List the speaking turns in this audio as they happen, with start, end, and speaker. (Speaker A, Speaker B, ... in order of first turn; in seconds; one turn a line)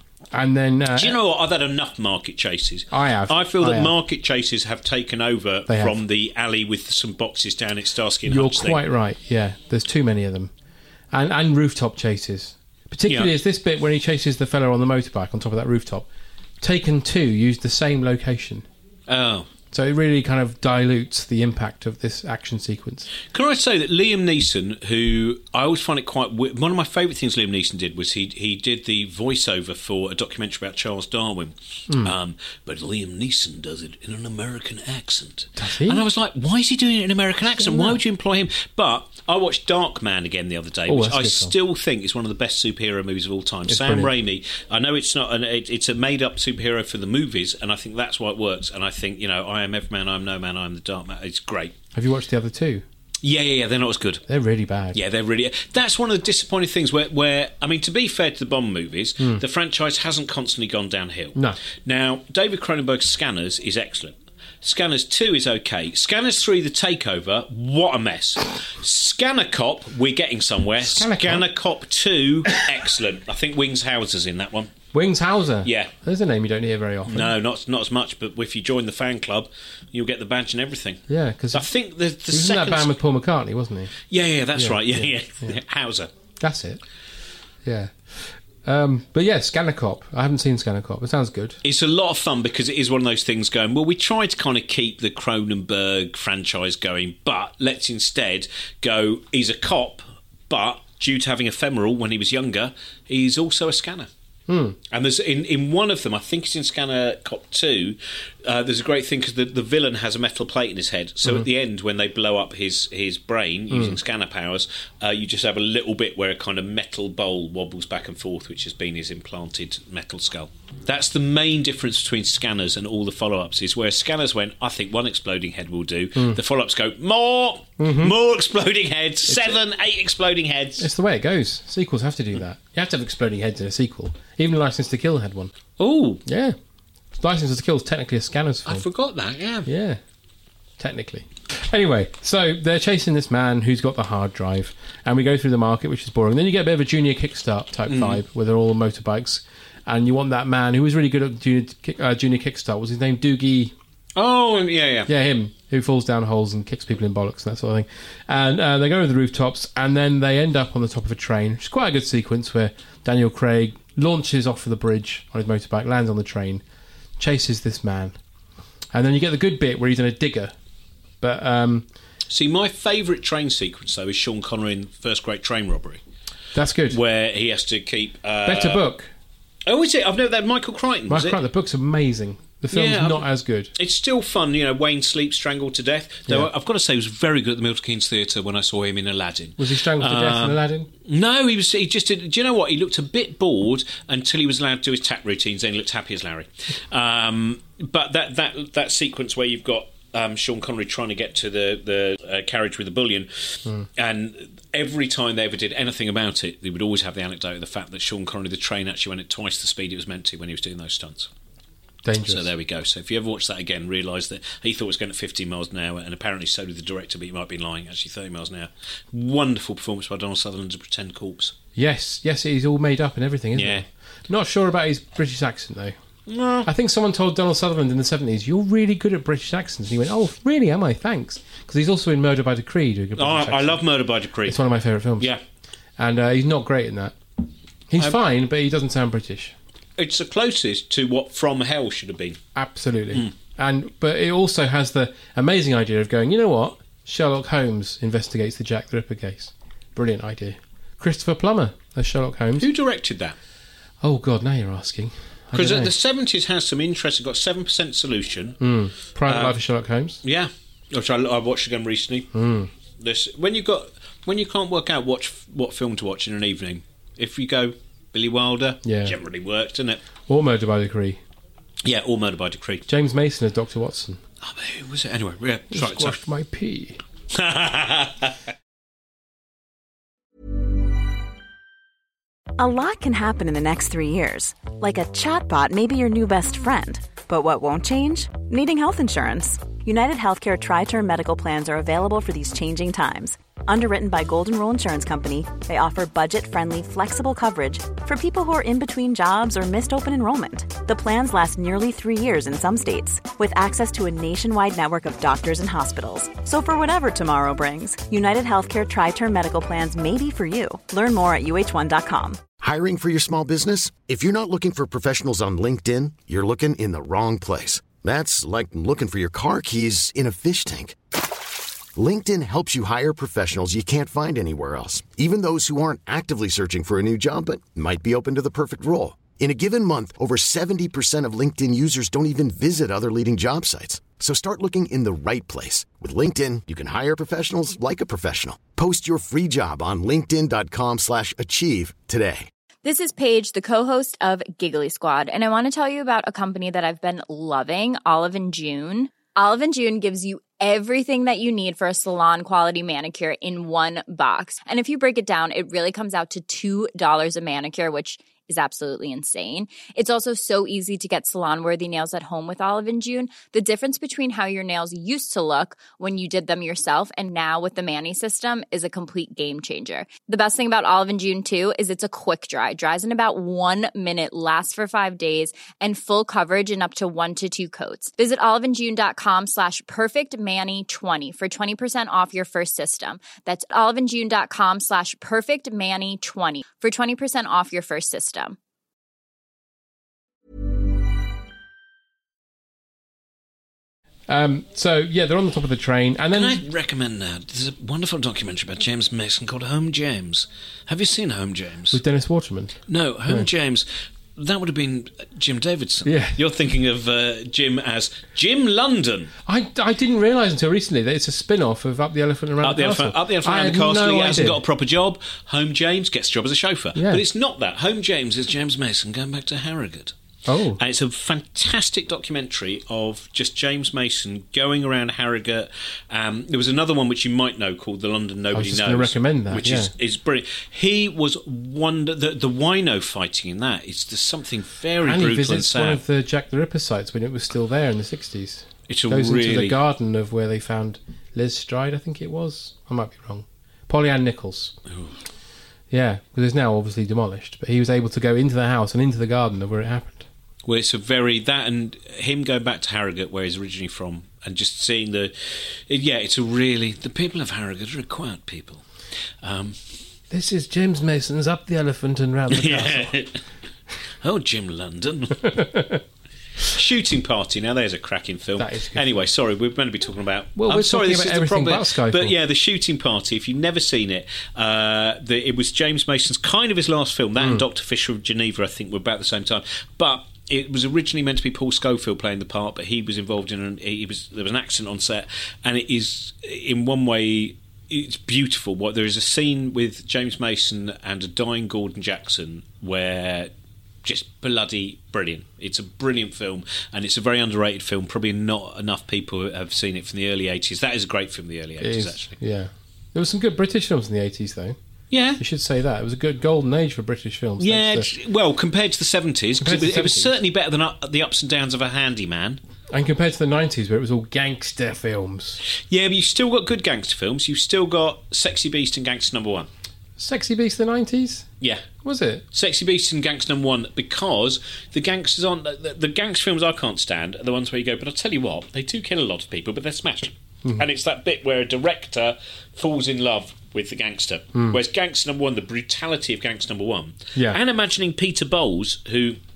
Speaker A: 0.3-1.2
Speaker B: 0.9-8.8
Speaker A: 2.9-3.9
Speaker A: 5.7-6.0
Speaker A: 8.3-10.5
Speaker A: 11.1-16.1
Speaker A: 16.6-18.7
Speaker B: 19.1-19.5
Speaker A: 19.7-23.1
Speaker B: 23.3-51.8
Speaker A: 35.6-36.0
Speaker A: 37.6-38.0
Speaker A: 40.9-41.5
Speaker A: 43.7-44.1
Speaker A: 52.0-52.8
Speaker B: 53.2-54.2
Speaker A: 54.3-55.0
Speaker B: 54.9-74.7
Speaker A: 70.8-71.5
Speaker A: 74.9-77.3
Speaker B: 75.7-75.9
Speaker B: 77.1-82.9
Speaker A: 81.1-81.7
Speaker A: 82.3-84.0
Speaker B: 84.1-86.1
Speaker A: 84.6-85.5
Speaker A: 86.4-86.8
Speaker A: 87.7-91.6
Speaker B: 91.6-104.1
Speaker A: 104.5-104.8
Speaker B: 104.9-130.9
Speaker A: 113.7-114.0
Speaker A: 127.8-128.1
Speaker A: 129.3-129.6
Speaker A: 130.8-135.5
Speaker B: 135.8-136.2
Speaker A: 136.3-136.6
Speaker A: 137.2-138.8
Speaker B: 138.7-139.7
Speaker A: 139.7-140.0
Speaker A: 140.8-153.7
Speaker B: 147.9-148.2
Speaker B: 154.2-155.1
Speaker A: 155.1-166.6
Speaker A: 167.2-168.2
Speaker A: 168.9-170.5
Speaker A: 171.2-171.9
Speaker B: 172.3-176.0
Speaker A: 176.6-177.0
Speaker B: 176.9-178.8
Speaker A: 178.4-179.1
Speaker B: 179.7-181.4
Speaker A: 181.1-183.7
Speaker B: 182.7-211.3
Speaker A: 189.6-190.9
Speaker A: 212.0-212.5
Speaker B: 212.2-221.6
Speaker A: 221.8-225.9
Speaker B: 223.6-223.8
Speaker B: 226.3-226.7
Speaker A: 226.7-233.8
Speaker B: 233.2-234.6
Speaker A: 234.5-235.3
Speaker A: 236.0-237.2
Speaker A: 237.9-239.6
Speaker B: 240.0-242.4
Speaker A: 242.6-252.7
Speaker B: 252.6-253.3
Speaker A: 254.0-255.9
Speaker B: 255.5-258.6
Speaker A: 258.6-260.2
Speaker B: 259.3-259.6
Speaker B: 260.2-262.3
Speaker A: 262.3-262.7
Speaker B: 263.0-270.0
Speaker A: 268.9-269.1
Speaker A: 270.3-271.2
Speaker B: 271.8-272.9
Speaker A: 272.9-274.2
Speaker B: 274.4-276.2
Speaker A: 275.7-277.0
Speaker B: 277.3-278.4
Speaker C: 282.6-312.5
Speaker D: 312.6-321.0
Speaker D: 321.9-342.5
Speaker E: 342.8-388.6
Speaker A: 394.3-396.6
Speaker B: 396.3-402.0
Speaker A: 401.9-403.5
Speaker B: 402.9-409.3
Speaker A: 406.1-406.4
Speaker A: 409.5-414.6
Speaker B: 412.6-420.1
Speaker A: 416.9-417.2
Speaker A: 420.5-420.8
Speaker B: 420.8-436.0
Speaker A: 428.5-429.9
Speaker A: 435.0-444.8
Speaker B: 438.9-439.8
Speaker B: 444.9-445.1
Speaker A: 445.9-450.3
Speaker B: 450.7-458.8
Speaker B: 459.4-459.8
Speaker A: 460.3-463.1
Speaker B: 462.5-463.4
Speaker B: 464.2-465.6
Speaker A: 465.5-466.0
Speaker B: 466.6-493.5
Speaker A: 468.6-469.1
Speaker A: 470.6-472.3
Speaker B: 494.0-502.4
Speaker A: 501.8-504.8
Speaker B: 505.1-505.4
Speaker A: 505.4-508.1
Speaker B: 507.6-512.6
Speaker A: 509.6-510.4
Speaker A: 512.9-515.6
Speaker B: 515.9-519.7
Speaker A: 520.2-521.5
Speaker A: 522.0-522.4
Speaker B: 522.5-539.4